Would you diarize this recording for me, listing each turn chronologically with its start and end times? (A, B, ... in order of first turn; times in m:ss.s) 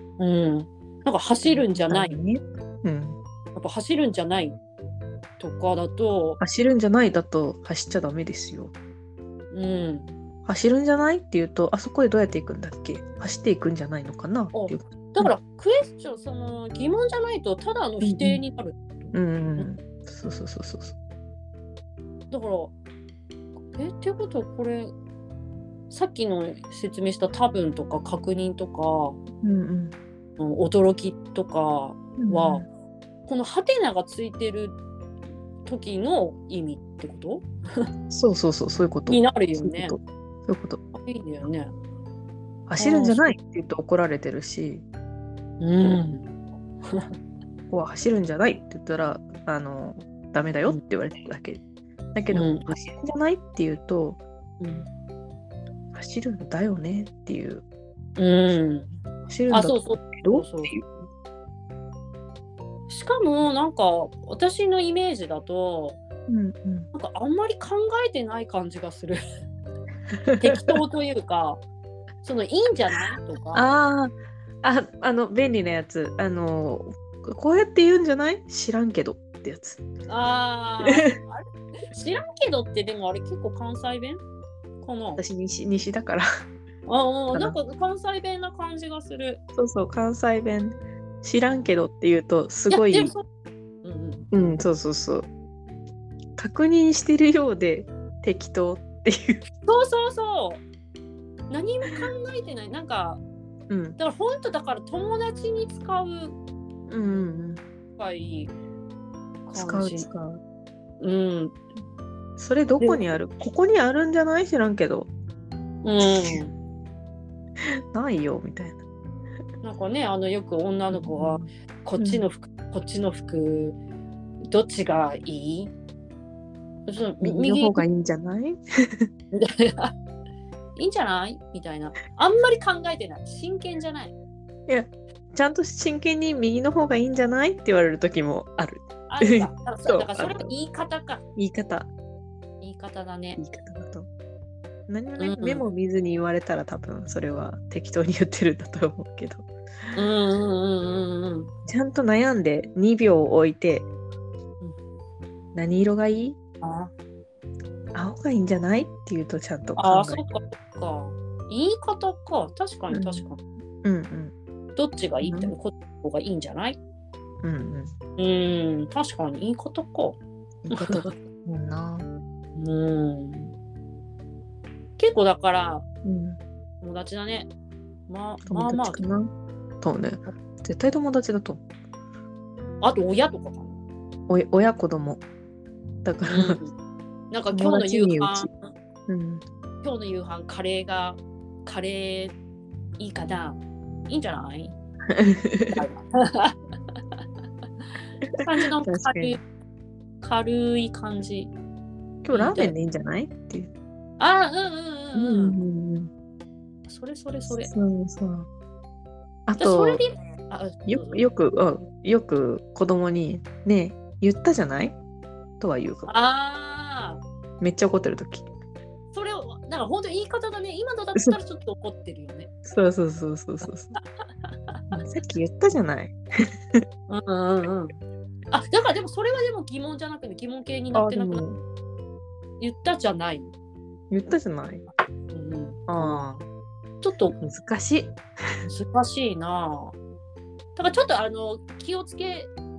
0:00.2-0:02.2 A
0:01.4-0:03.2 B
0:03.5-0:04.6 A
0:05.4-0:06.4 A
0:06.4-0:08.7 B
0:09.5-0:10.1 A
0:10.4-0:15.3 B
0:14.5-0:19.7 A
0:18.0-0:18.4 B
0:19.1-0:21.0 B
0:22.3-0:22.7 A
0:23.7-0:24.9 A
0:25.9-0:29.2 A
0:29.4-0:29.9 B
0:30.4-0:32.6 A
0:32.2-0:32.6 B
0:33.3-0:34.8 A
0:35.6-0:37.8 A
0:38.1-0:40.8 B
0:39.1-0:40.0 A
0:40.9-0:41.7 A
0:42.7-0:44.8 B
0:42.8-0:43.3 A
0:45.6-0:47.1 A
0:47.7-0:51.6 B
0:52.1-0:54.2 B
0:52.3-0:52.8 A
0:54.6-0:54.9 A
0:55.9-0:57.6 B
0:58.2-0:58.9 A
0:59.3-1:00.9 B
0:59.5-1:00.7 A
1:02.9-1:06.0 A
1:06.3-1:06.9 B
1:06.9-1:09.2 A
1:10.3-1:10.7 B
1:10.4-1:11.6 A
1:12.2-1:13.6 A
1:13.5-1:19.8 B
1:20.1-1:24.2 A
1:24.8-1:25.2 A
1:25.2-1:26.2 B
1:26.8-1:29.4 A
1:29.6-1:33.1 B
1:32.7-1:33.2 A
1:33.8-1:34.3 A
1:34.3-1:35.3 B
1:36.4-1:39.4 B
1:39.6-1:40.6 A
1:41.5-1:43.2 A
1:43.7-1:44.0 B
1:44.0-1:46.4 A
1:46.9-1:47.6 B
1:48.0-1:48.5 A
1:49.5-1:50.1 A
1:49.5-1:50.4 B
1:51.0-1:51.6 A
1:52.4-1:55.1 B
1:55.8-1:56.5 A
1:56.0-1:56.4 B
1:57.9-1:58.8 B
1:59.6-2:03.8 A
2:00.9-2:02.2 B
2:04.5-2:05.7 A
2:06.9-2:07.8 A
2:07.2-2:09.1 B
2:09.3-2:09.9 A
2:10.8-2:14.1 A
2:14.7-2:20.5 B
2:19.1-2:21.2 A
2:21.4-2:21.9 B
2:22.6-2:23.4 A
2:23.4-2:24.1 B
2:24.9-2:30.0 B
2:25.2-2:25.6 A
2:30.0-2:31.5 A
2:31.6-2:33.9 B
2:35.5-2:36.4 B
2:36.6-2:36.9 A
2:37.9-2:40.3 B
2:39.8-2:43.4 A
2:42.9-2:43.2 B
2:43.8-2:44.3 B
2:44.8-2:46.8 A
2:45.2-2:45.5 B
2:47.4-2:47.9 B
2:48.2-2:50.2 A
2:50.6-2:52.1 B
2:50.7-2:51.0 A
2:52.6-2:53.5 A
2:55.0-2:55.8 A
2:56.0-2:56.4 B
2:56.8-2:57.5 A
2:58.1-2:59.0 A
2:58.4-2:59.3 B
2:59.8-3:01.6 B
3:02.8-3:03.8 A
3:04.3-3:05.2 B
3:06.0-3:06.6 B
3:06.3-3:06.7 A
3:07.3-3:08.7 A
3:07.5-3:08.5 B
3:09.1-3:09.4 B
3:09.8-3:12.4 A
3:13.0-3:14.7 A
3:15.1-3:15.8 B
3:15.7-3:16.5 A
3:18.3-3:19.4 B
3:18.4-3:19.4 A
3:20.2-3:21.5 A
3:22.2-3:23.7 B
3:22.3-3:22.7 A
3:24.2-3:25.6 A
3:25.1-3:26.1 B
3:26.9-3:27.7 A
3:27.5-3:28.5 B
3:29.5-3:30.0 B
3:29.6-3:31.3 A
3:30.9-3:35.0 B
3:35.6-3:36.1 B
3:36.1-3:37.2 A
3:37.6-3:38.5 B
3:39.1-3:42.5 A
3:42.6-3:43.9 B
3:44.0-3:45.0 A
3:44.9-3:46.2 B
3:47.1-3:48.0 A
3:48.5-3:51.4 A
3:50.9-3:51.6 B
3:52.6-3:53.5 A
3:54.1-3:54.8 B
3:55.3-3:56.4 A
3:55.9-3:56.4 B
3:57.0-3:57.4 A
3:57.4-3:58.2 B
3:58.6-4:00.0 A
4:00.8-4:02.5 A